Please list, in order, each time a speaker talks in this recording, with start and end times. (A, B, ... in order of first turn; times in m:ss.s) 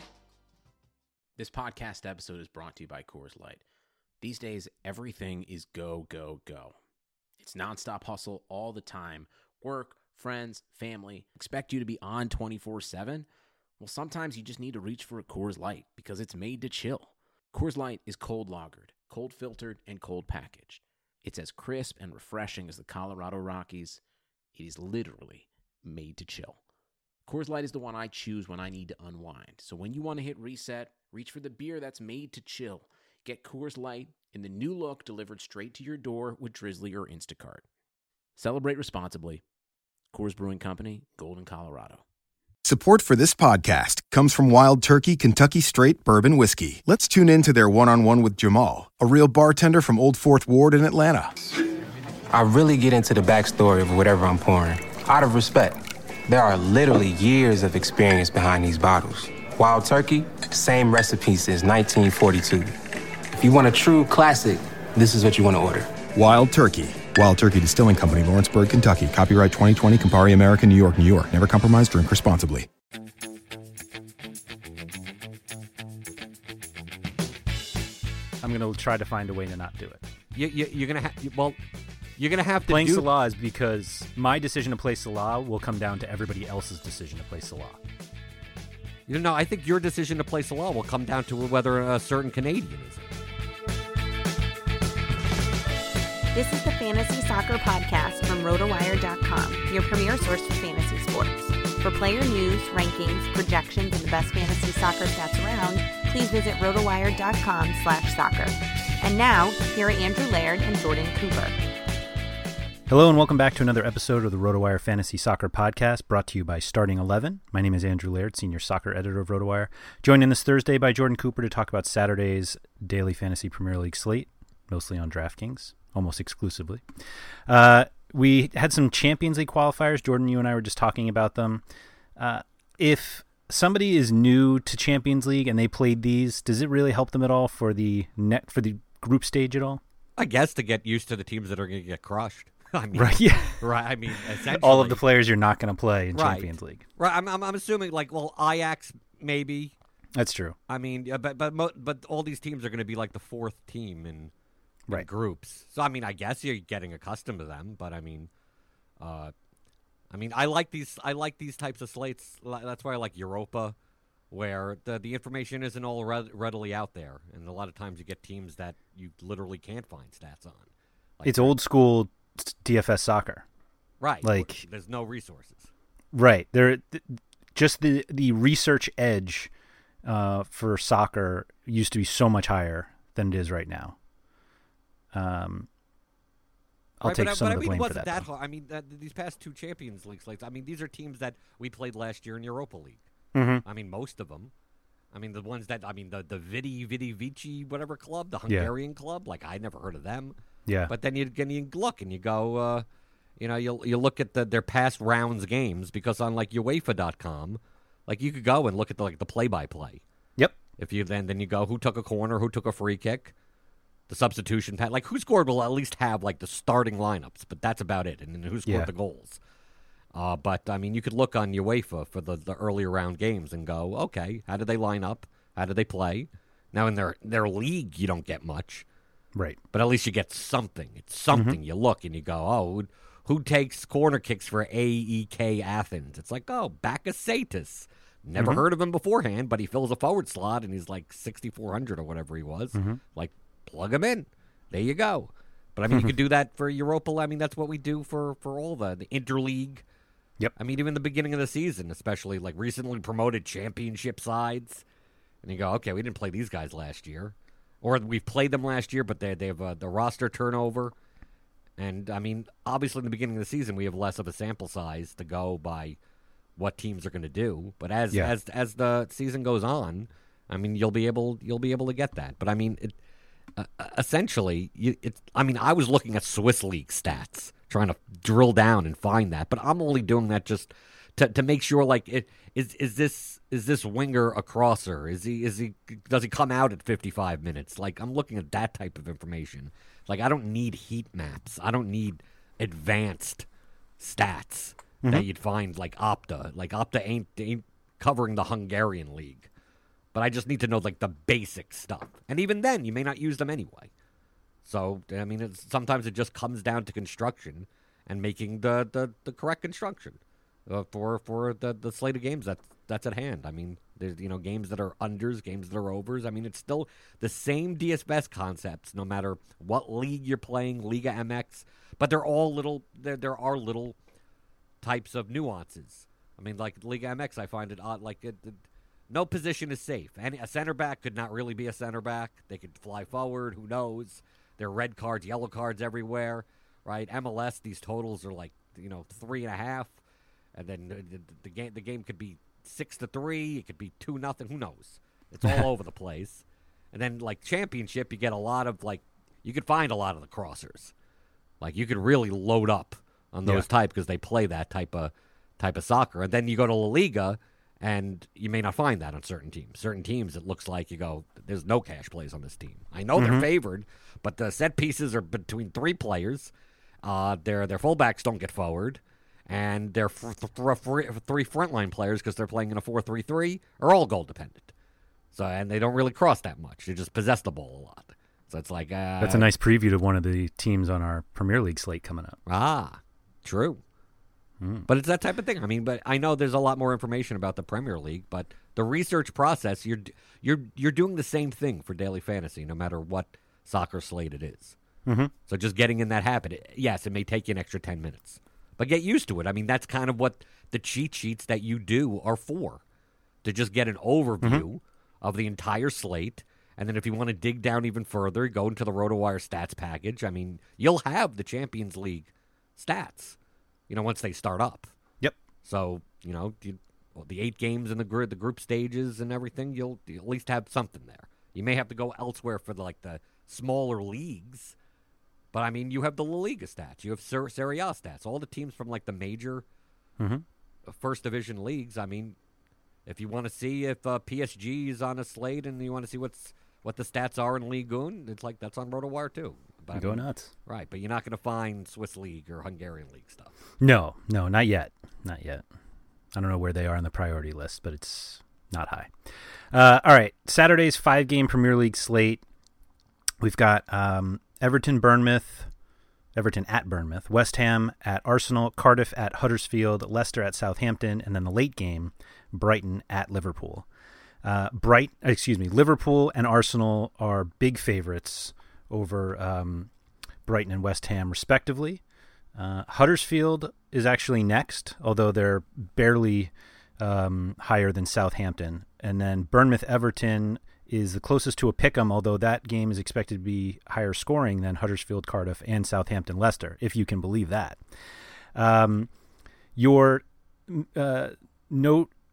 0:01.4-0:03.6 A
0:04.2-0:06.8 A
0:07.4-0:13.3 A
0:13.8-0:24.0 A
0:24.5-0:26.6 A
0:27.2-0:37.6 A
0:38.4-0:39.4 A
0:40.1-0:42.0 A
0:42.6-0:51.4 B
0:52.3-1:02.8 C
1:03.4-1:06.0 C
1:06.1-1:12.7 B
1:18.4-1:20.0 D
1:20.3-1:21.6 E
1:22.2-1:23.1 E
1:22.7-1:27.8 D
1:29.1-1:33.1 E
1:36.3-1:51.6 F
1:52.9-2:06.8 D
2:07.5-2:11.6 D
2:12.2-2:19.8 D
2:20.2-2:25.0 E
2:22.9-2:23.6 D
2:24.5-2:26.8 D
2:26.1-2:29.8 E
2:30.2-2:30.6 D
2:30.7-2:34.3 E
2:34.9-2:38.3 E
2:39.0-2:39.3 E
2:40.1-2:43.8 E
2:44.3-2:50.7 E
2:51.2-2:51.5 E
2:51.2-2:53.4 D
2:54.0-2:55.7 E
2:54.2-2:54.6 D
2:56.1-2:59.5 D
3:00.0-3:04.0 D
3:05.1-3:05.7 D
3:07.0-3:08.2 D
3:07.0-3:13.0 E
3:13.4-3:13.6 D
3:13.6-3:14.5 E
3:15.1-3:20.4 E
3:20.6-3:20.9 D
3:20.9-3:22.9 E
3:23.4-3:30.0 E
3:30.8-3:33.3 E
3:34.1-3:39.4 E
3:40.1-3:48.8 E
3:49.7-4:09.8 E
3:51.3-3:51.6 D
3:58.4-3:58.6 D
4:10.6-4:14.8 E
4:15.4-4:20.9 E
4:21.8-4:26.0 E
4:26.6-4:32.9 E
4:33.6-4:53.4 E
4:54.0-4:59.5 E
5:00.1-5:03.9 E
5:04.6-5:24.0 E
5:24.8-5:40.0 E
5:40.6-5:50.9 E
5:51.6-6:06.5 E
6:03.2-6:03.5 D
6:07.0-6:14.7 E
6:15.3-6:19.5 E
6:19.2-6:22.4 D
6:22.5-6:23.8 E
6:24.6-6:24.9 D
6:24.9-6:34.8 E
6:35.1-6:35.3 D
6:35.5-6:42.8 E
6:43.4-6:53.4 E
6:53.9-6:54.9 E
6:55.6-7:04.8 E
7:05.5-7:09.6 E
7:10.2-7:10.4 D
7:10.9-7:12.4 E
7:13.1-7:23.5 E
7:19.9-7:20.5 D
7:23.8-7:25.6 D
7:26.3-7:29.1 D
7:29.7-7:32.4 D
7:33.4-7:35.7 D
7:36.4-7:43.9 D
7:44.4-7:49.9 D
7:50.5-7:52.0 D
7:52.6-8:07.8 D
8:08.5-8:09.1 D
8:09.8-8:12.1 D